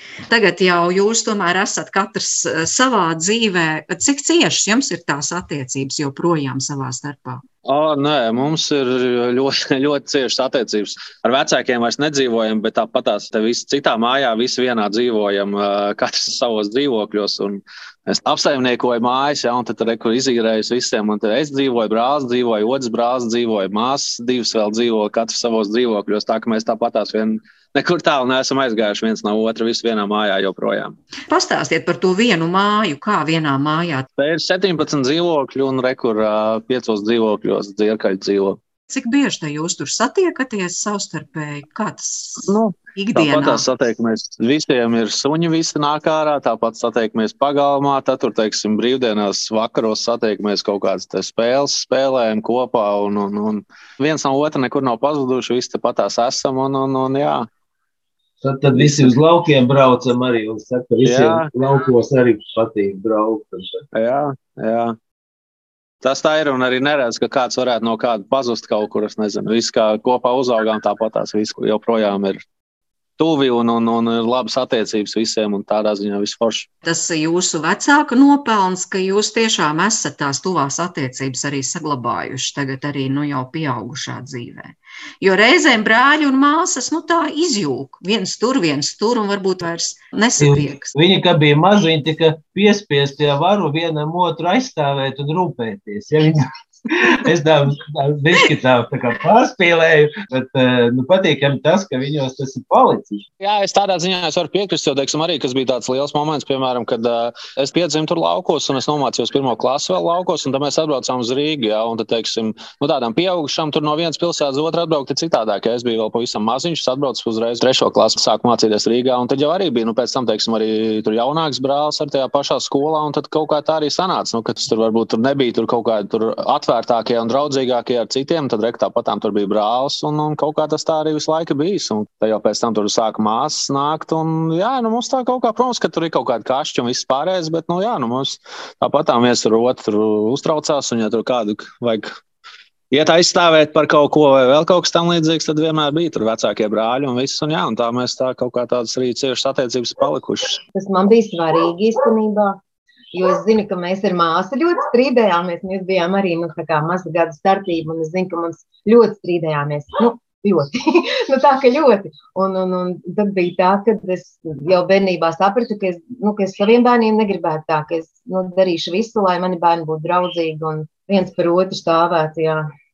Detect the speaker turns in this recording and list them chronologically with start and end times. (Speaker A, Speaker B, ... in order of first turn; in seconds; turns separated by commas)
Speaker A: 0.3-7.4, Speaker B: 7.6-30.9, Speaker A: 31.3-34.1, Speaker B: 34.2-38.6, Speaker A: 38.9-43.6, Speaker B: 42.5-57.5, Speaker C: 58.4-63.8, Speaker B: 61.0-61.5, Speaker B: 63.9-65.0, Speaker B: 66.0-72.4, Speaker B: 73.2-76.7, Speaker A: 76.8-90.9, Speaker C: 90.4-103.2, Speaker B: 103.4-142.1, Speaker B: 142.9-150.6, Speaker D: 150.7-152.6, Speaker D: 153.1-172.7